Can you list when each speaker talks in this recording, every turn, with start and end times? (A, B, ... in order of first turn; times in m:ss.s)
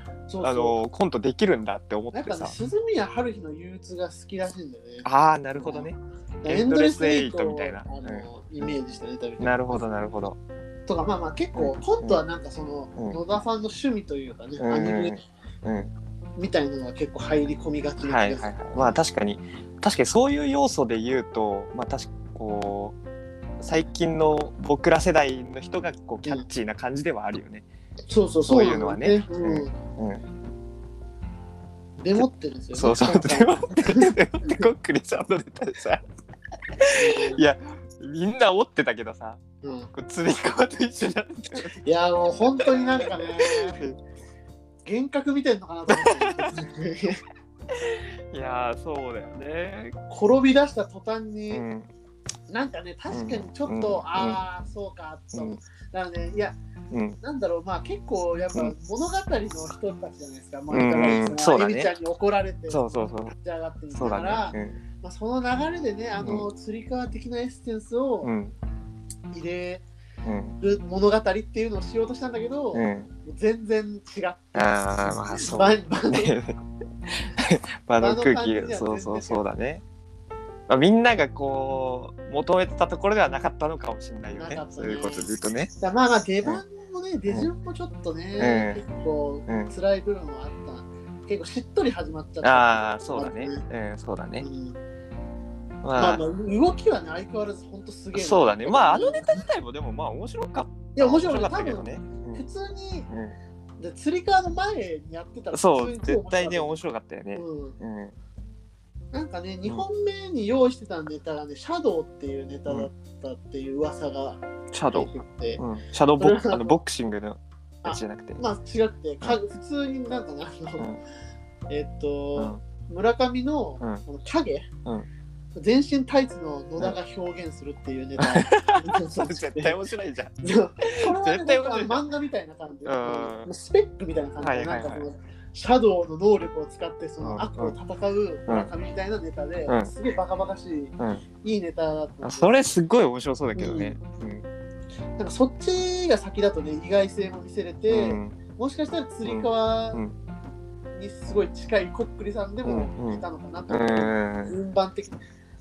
0:00.3-0:00.8 A
0:00.4-0:02.5 B
0:02.1-0:05.1 A
0:05.0-0:08.7 B
0:05.6-0:05.9 A
0:06.4-0:09.8 A
0:09.4-0:10.4 B
0:10.9-0:15.2 A
0:11.5-0:12.2 B
0:14.6-0:15.9 B
0:16.4-0:19.0 A
0:18.0-0:23.0 B
0:23.6-0:27.6 B
0:28.1-0:29.8 A
0:28.4-0:30.2 B
0:32.0-0:34.7 A
0:32.2-0:36.0 B
0:36.8-0:39.4 B
0:36.9-0:37.4 A
0:39.6-0:39.9 A
0:39.9-0:41.7 B
0:41.6-0:43.8 A
0:42.3-0:44.0 B
0:44.8-0:47.2 A
0:45.9-0:46.6 B
0:47.7-0:50.0 B
0:50.1-0:51.6 A
0:51.5-0:51.9 B
0:52.5-0:56.6 A
0:53.1-0:54.4 B
0:55.3-0:55.6 B
0:56.9-0:57.2 B
0:57.2-1:08.3 A
1:00.7-1:01.9 B
1:02.7-1:03.3 B
1:03.9-1:04.8 B
1:06.2-1:06.4 B
1:08.2-1:08.5 B
1:09.3-1:09.8 A
1:10.2-1:10.6 B
1:10.6-1:16.3 A
1:12.7-1:13.1 B
1:14.5-1:19.8 B
1:18.0-1:19.4 A
1:20.7-1:25.7 B
1:24.4-1:33.6 A
1:28.4-1:28.8 B
1:29.5-1:29.7 B
1:32.4-1:34.5 B
1:34.4-1:34.8 A
1:35.8-1:36.2 B
1:36.0-1:39.4 A
1:38.1-1:42.4 B
1:40.9-1:43.1 A
1:43.1-1:43.3 B
1:43.8-1:46.8 A
1:45.5-1:48.2 B
1:47.3-1:47.8 A
1:49.1-1:55.6 A
1:54.7-1:58.4 B
1:56.2-1:56.8 A
1:57.8-2:00.9 A
2:01.7-2:04.7 A
2:02.4-2:02.6 B
2:05.5-2:09.8 A
2:08.2-2:12.0 B
2:10.4-2:22.6 A
2:12.8-2:13.5 B
2:14.4-2:15.1 B
2:17.2-2:17.7 B
2:19.6-2:19.9 B
2:21.0-2:21.2 B
2:22.2-2:24.4 B
2:23.5-2:24.0 A
2:25.2-2:30.0 A
2:27.9-2:28.4 B
2:29.2-2:30.1 B
2:30.9-2:35.2 A
2:32.6-2:34.6 B